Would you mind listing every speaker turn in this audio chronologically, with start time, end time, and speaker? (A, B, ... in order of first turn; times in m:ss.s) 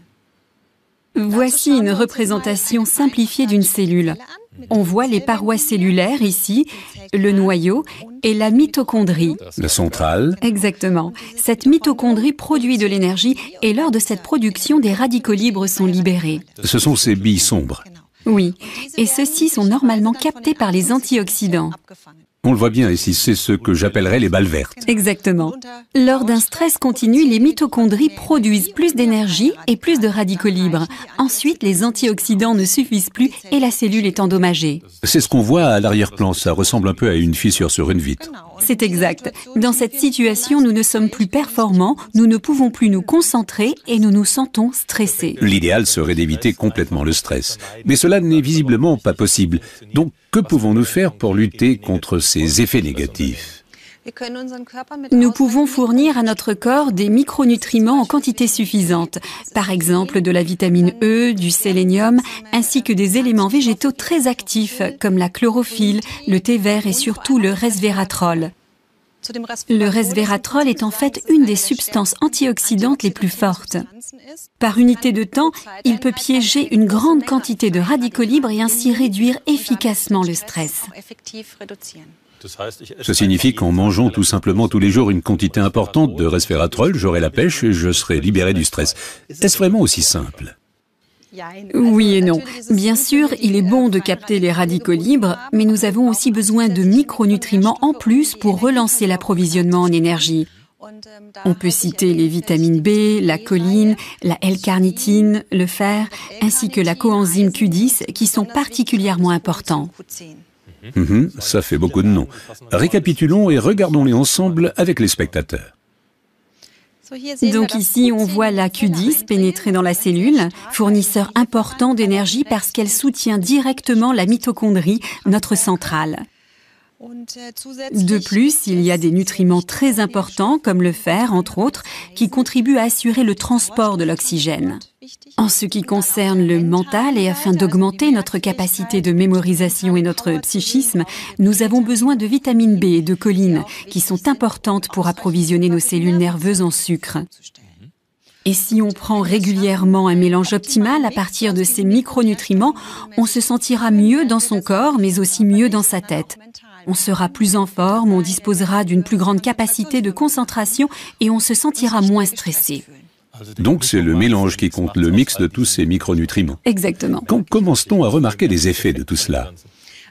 0:01.2-0:09.4 A
0:09.6-0:10.4 B
0:10.4-0:16.4 A
0:16.6-0:17.8 B
0:18.2-0:21.7 A
0:22.4-0:24.8 B
0:24.8-0:34.8 A
0:35.0-0:38.3 B
0:38.6-0:45.4 A
0:45.4-0:53.6 B
0:55.1-1:08.5 A
1:09.7-1:13.8 A
1:14.6-1:20.9 A
1:23.0-1:30.5 B
1:31.7-1:40.5 A
1:41.4-1:49.9 A
1:50.9-1:55.7 B
1:57.4-2:06.2 A
2:07.9-2:14.8 A
2:15.4-2:27.2 A
2:28.4-2:42.8 A
2:43.6-2:46.6 B
2:46.6-2:47.3 A
2:47.3-2:49.5 B